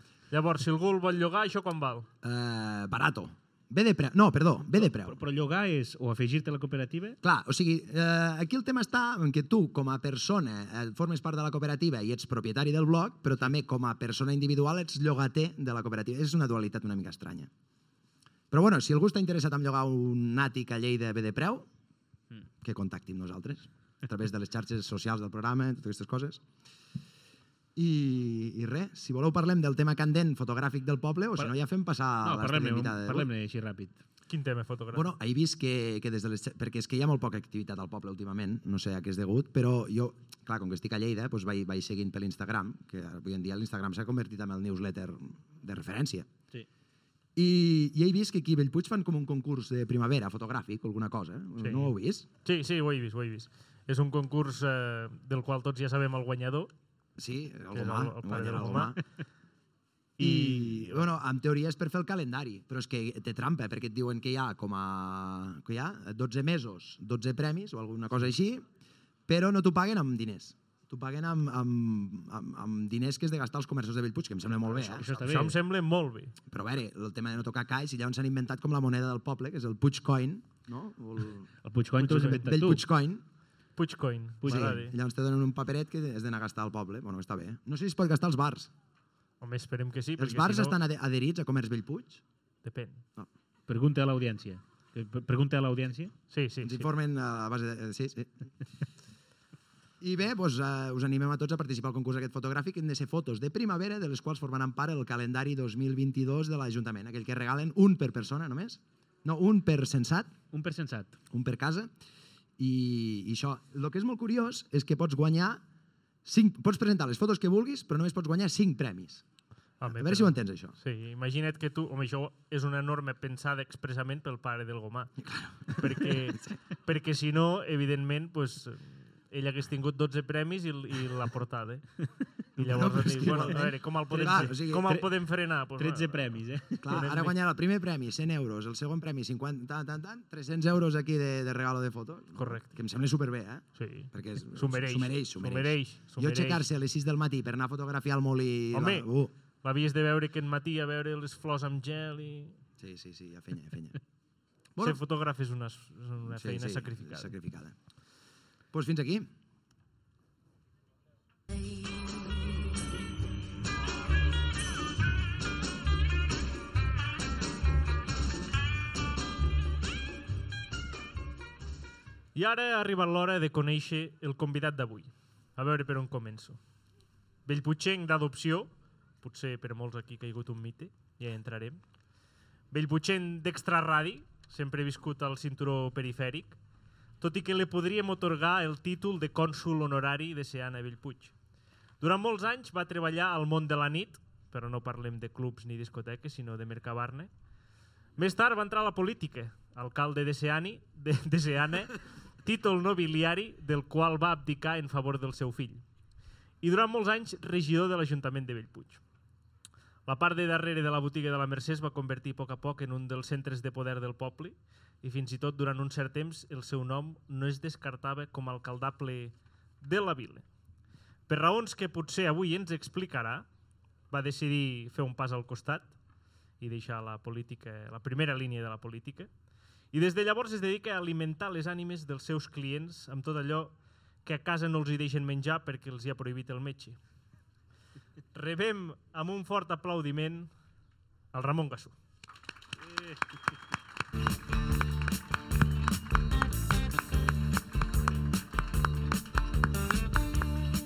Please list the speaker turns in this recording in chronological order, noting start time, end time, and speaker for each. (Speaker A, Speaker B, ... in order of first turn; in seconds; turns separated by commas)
Speaker A: 0.3-2.1, Speaker B: 2.2-5.2, Speaker C: 4.8-7.2, Speaker B: 7.2-17.5, Speaker B: 18.5-21.7, Speaker B: 22.6-26.4, Speaker B: 27.8-33.3, Speaker C: 32.2-34.0, Speaker A: 34.3-35.1, Speaker B: 34.9-46.3, Speaker B: 47.4-52.3, Speaker A: 51.6-51.9, Speaker A: 52.4-56.7, Speaker B: 57.2-59.0, Speaker A: 57.7-58.9, Speaker A: 60.2-61.0, Speaker B: 60.2-68.7, Speaker B: 69.3-75.1, Speaker C: 74.7-75.5, Speaker A: 75.2-76.3, Speaker B: 76.5-81.5, Speaker C: 81.6-82.8, Speaker A: 82.0-82.4, Speaker B: 82.1-83.2, Speaker A: 83.8-84.9, Speaker C: 84.4-84.8, Speaker B: 84.4-88.7, Speaker A: 89.4-90.7, Speaker B: 90.2-92.2, Speaker A: 92.6-93.0, Speaker C: 93.7-96.1, Speaker A: 96.3-96.9, Speaker B: 96.6-98.3, Speaker B: 100.0-110.3, Speaker C: 110.5-111.2, Speaker B: 111.3-111.9, Speaker B: 112.6-115.6, Speaker B: 116.2-119.2, Speaker A: 119.8-125.2, Speaker B: 119.8-120.7, Speaker B: 125.2-126.5, Speaker A: 125.7-131.8, Speaker A: 132.6-137.3, Speaker B: 132.6-134.9, Speaker C: 132.8-133.6, Speaker C: 134.1-135.1, Speaker C: 135.8-137.0, Speaker B: 136.8-149.3, Speaker A: 142.3-142.7, Speaker A: 143.8-146.6, Speaker A: 148.7-149.1, Speaker A: 149.6-152.6, Speaker B: 152.8-154.0, Speaker A: 154.8-157.3, Speaker B: 156.2-157.7, Speaker B: 158.7-159.3, Speaker A: 172.3-176.6, Speaker A: 177.4-178.7, Speaker A: 179.2-181.8, Speaker A: 182.7-186.6, Speaker A: 187.2-191.3, Speaker A: 192.0-197.3, Speaker A: 198.2-205.8, Speaker A: 206.6-209.0, Speaker A: 210.1-220.4, Speaker A: 221.3-223.4, Speaker A: 224.1-225.9, Speaker A: 226.6-229.3, Speaker A: 229.9-233.7, Speaker A: 234.2-237.0, Speaker A: 238.3-240.5, Speaker A: 241.3-241.9